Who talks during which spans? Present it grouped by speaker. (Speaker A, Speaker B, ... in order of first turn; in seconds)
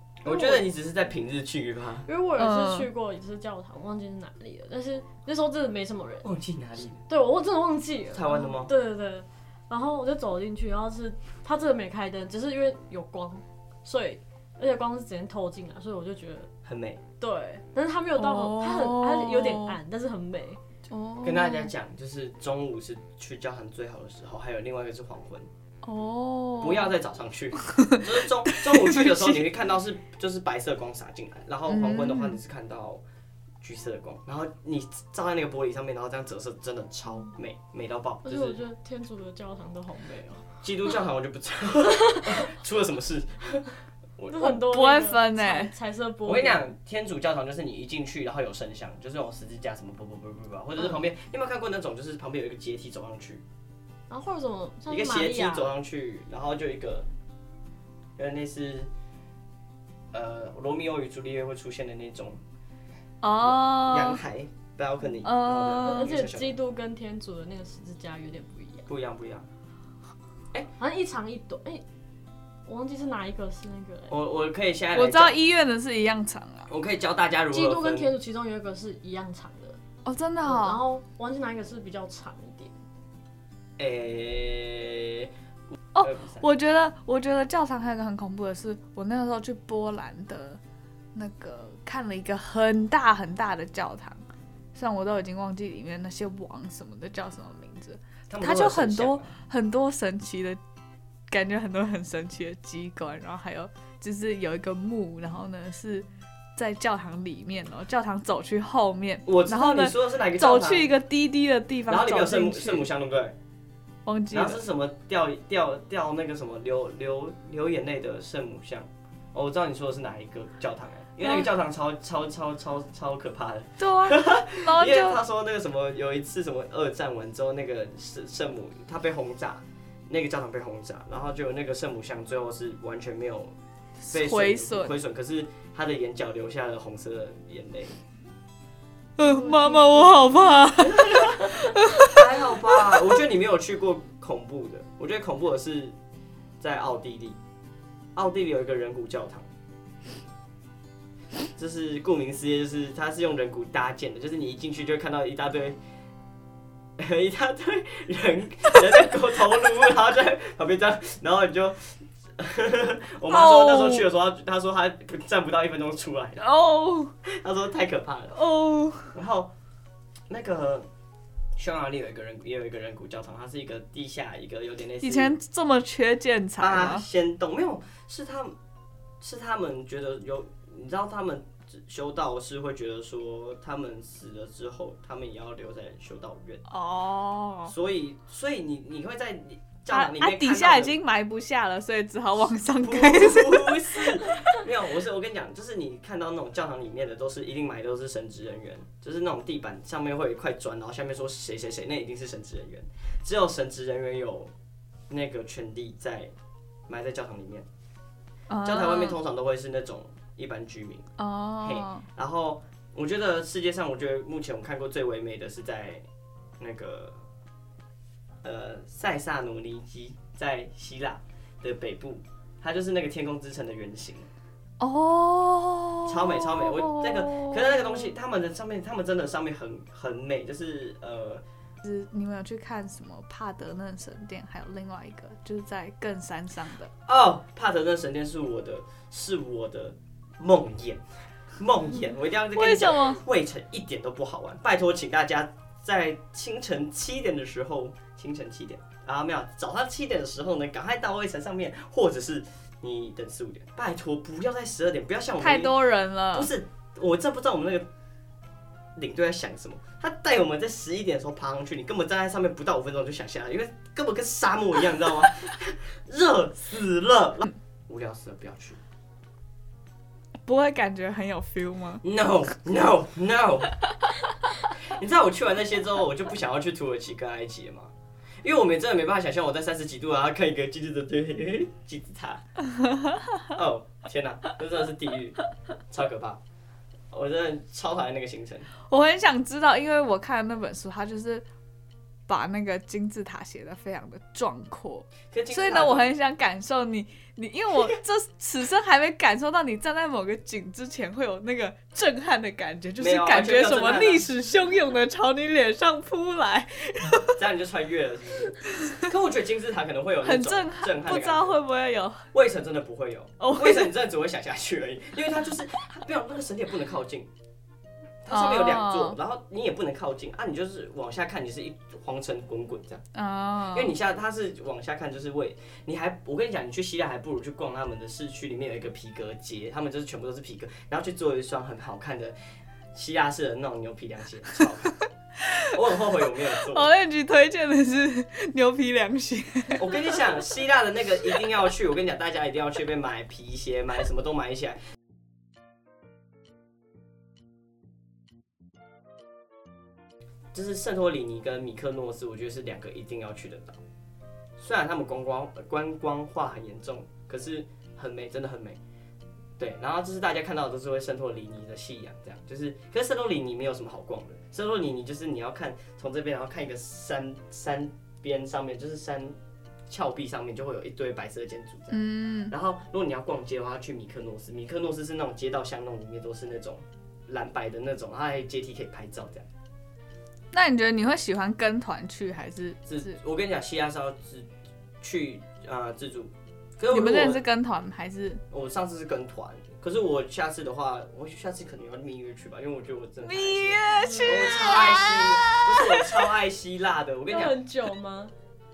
Speaker A: 0.2-2.1, 6.2-7.0, 8.1-8.7, 16.6-17.0, 21.2-25.5, 26.6-33.0, 33.6-38.6, 40.6-44.6, 46.2-53.4, 54.9-57.1, 58.2-58.9, 60.1-62.4, 63.4-66.6, 68.9-69.5, 74.1-75.4, 76.7-78.2, 83.8-85.3, 86.0-86.4, 98.3-99.3, 109.2-110.9, 111.9-113.3, 114.3-133.5, 134.1-137.9, 140.8-145.9, 146.6-147.4, 148.1-149.5, 151.6-155.8, 157.0-166.4, 167.2-168.4, 169.1-169.5, 170.3-170.9, 171.6-175.4, 176.6-178.6, 179.2-186.6, 187.7-191.0, 192.7-204.5, 205.1-206.3, 206.9-207.7, 208.6-211.1, 211.6-216.0, 216.6-217.2, 218.4-224.3, 226.1-231.4, 237.1-241.0, 241.6-257.9, 258.9-268.8, 272.0-273.7, 274.8-282.4, 283.5-285.4, 285.9-286.4, 287.1-288.7, 295.3-296.1, 303.0-304.3, 307.4-311.6, 312.3-317.3, 318.2-323.0, 323.7-332.4, 332.9-335.0, 335.6-336.9, 339.8-344.8, 350.5-353.8, 354.6-358.8, 359.6-369.4, 369.9-379.5, 382.9-384.5, 385.0-387.4, 388.5-397.6
Speaker B: 0.2-0.7, 2.1-6.3, 7.1-16.5, 17.2-20.6, 38.2-40.6, 42.0-42.4, 44.3-46.7, 54.1-55.7, 65.8-68.9, 70.8-71.8, 72.7-74.2, 77.5-79.8, 80.4-82.7, 139.2-140.5, 394.0-395.1, 397.3-398.3
Speaker C: 2.4-2.9, 18.2-19.8, 20.9-21.7, 25.8-26.9, 27.7-29.4, 31.7-32.4, 44.4-45.7, 63.2-64.2, 65.2-66.1, 74.9-76.7, 80.0-80.8, 85.9-90.6, 91.1-94.2, 94.7-100.6, 101.3-112.9, 114.0-114.6, 123.8-125.2, 134.0-134.9, 139.2-142.2, 163.3-164.1, 166.4-167.1, 168.3-169.1, 175.0-177.0, 186.7-187.7, 189.9-194.0, 208.5-209.2, 211.2-212.1, 224.8-228.1, 231.8-236.9, 242.5-243.2, 255.4-256.5, 270.4-272.0, 288.9-291.4, 292.3-307.4, 310.2-312.3, 313.4-313.9, 318.3-319.2, 323.1-323.9, 336.6-339.8, 371.9-372.5, 380.5-383.1, 386.9-388.4, 393.2-396.1